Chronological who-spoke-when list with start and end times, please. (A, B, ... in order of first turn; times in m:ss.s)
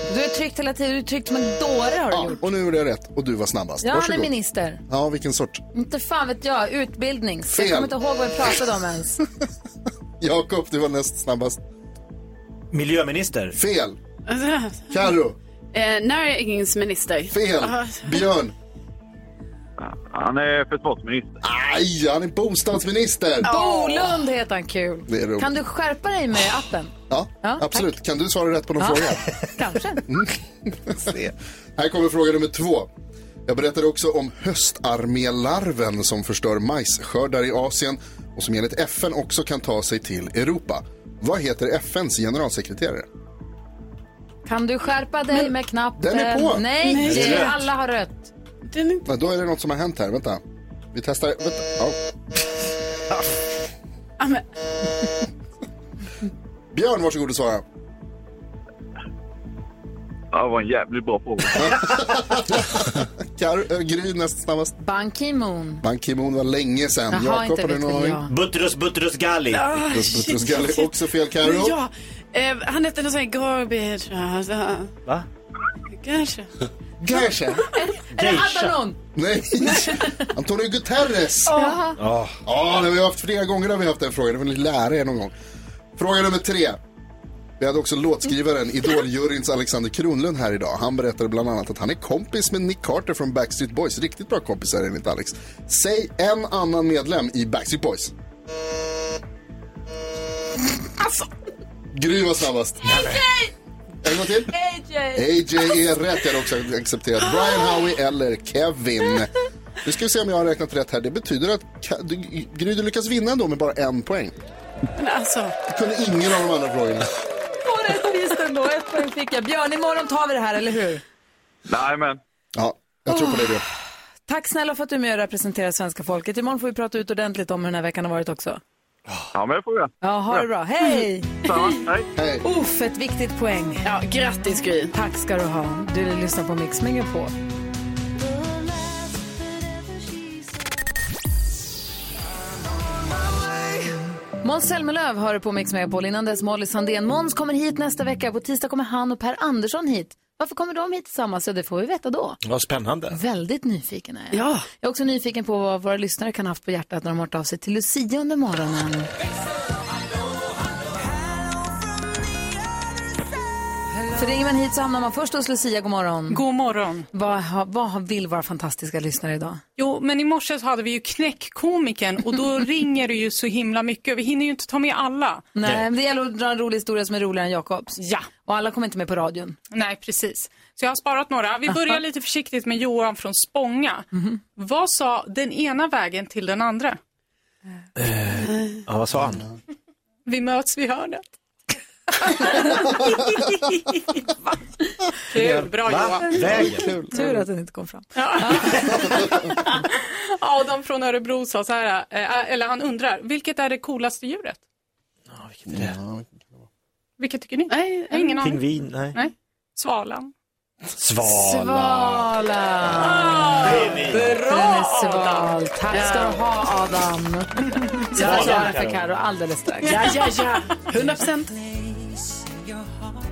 0:00.1-0:02.4 A
0:02.1-0:04.3 B
0:03.8-0:04.8 A
0:04.9-0:05.6 B
0:05.7-0:09.2 A
0:07.5-0:07.9 B
0:10.2-0:11.6 B
0:12.7-0:13.5 C
0:13.6-0:14.0 B
0:14.3-0:15.1 D
0:14.9-0:15.4 B
0:15.7-0:18.2 D
0:17.3-0:18.5 B
0:19.8-0:21.3 E
0:21.4-0:23.5 B
0:23.4-0:24.2 D
0:23.4-0:27.9 A
0:25.1-0:25.5 B
0:27.1-0:29.3 B
0:28.8-0:30.0 A
0:30.1-0:32.9 B
0:33.5-0:43.1 B
0:44.5-0:48.3 A
0:46.0-0:46.7 B
0:46.8-0:47.6 D
0:47.0-0:47.6 C
0:48.7-0:49.0 D
0:49.1-0:50.4 B
0:50.9-0:52.0 B
0:56.7-0:57.6 B
1:00.3-1:01.8 E
1:01.6-1:04.8 B
1:04.8-1:05.8 A
1:05.8-1:08.2 B
1:07.1-1:08.3 A
1:08.3-1:09.7 C
1:09.5-1:14.9 D
1:09.9-1:11.8 B
1:16.0-1:16.5 D
1:17.0-1:17.6 B
1:17.7-1:19.0 A
1:18.1-1:18.8 C
1:19.2-1:21.5 B
1:19.7-1:20.1 A
1:21.5-1:21.8 D
1:21.5-1:22.0 A
1:22.0-1:22.4 C
1:22.5-1:25.3 B
1:26.0-1:26.8 B
1:27.6-1:38.1 B
1:41.0-1:41.3 D
1:41.9-1:43.2 B
1:44.0-1:44.5 B
1:44.5-1:45.3 A
1:45.2-1:49.3 B
1:49.8-1:54.4 B
1:55.0-1:55.6 D
1:55.7-1:57.1 B
1:57.6-2:01.0 A
2:01.7-2:02.2 E
2:02.6-2:03.6 B
2:03.1-2:03.6 A
2:04.3-2:08.6 A
2:09.3-2:10.5 E
2:10.0-2:11.8 A
2:11.4-2:12.1 E
2:12.2-2:12.4 B
2:12.4-2:13.8 A
2:13.8-2:14.9 D
2:14.9-2:17.3 A
2:24.4-2:32.4 A
2:32.4-2:33.2 C
2:33.1-2:39.1 A
2:34.3-2:34.7 D
2:44.1-2:46.4 A
2:46.3-2:47.1 F
2:47.1-2:49.6 A
2:49.8-2:55.4 F
2:55.6-2:59.6 A
2:58.0-2:58.3 F
2:59.7-3:07.0 F
3:08.0-3:09.4 C
3:10.3-3:11.3 F
3:12.3-3:13.6 F
3:15.3-3:16.6 F
3:15.3-3:17.1 C
3:17.1-3:19.0 A
3:18.2-3:19.8 F
3:20.4-3:24.6 F
3:25.3-3:26.0 C
3:25.7-3:26.6 B
3:27.2-3:30.3 F
3:27.7-3:28.3 D
3:28.4-3:29.2 C
3:31.0-3:32.3 C
3:31.3-3:40.1 A
3:33.0-3:35.6 F
3:33.6-3:34.4 C
3:35.9-3:36.4 D
3:38.2-3:38.8 D
3:38.2-3:39.1 C
3:39.8-3:41.5 D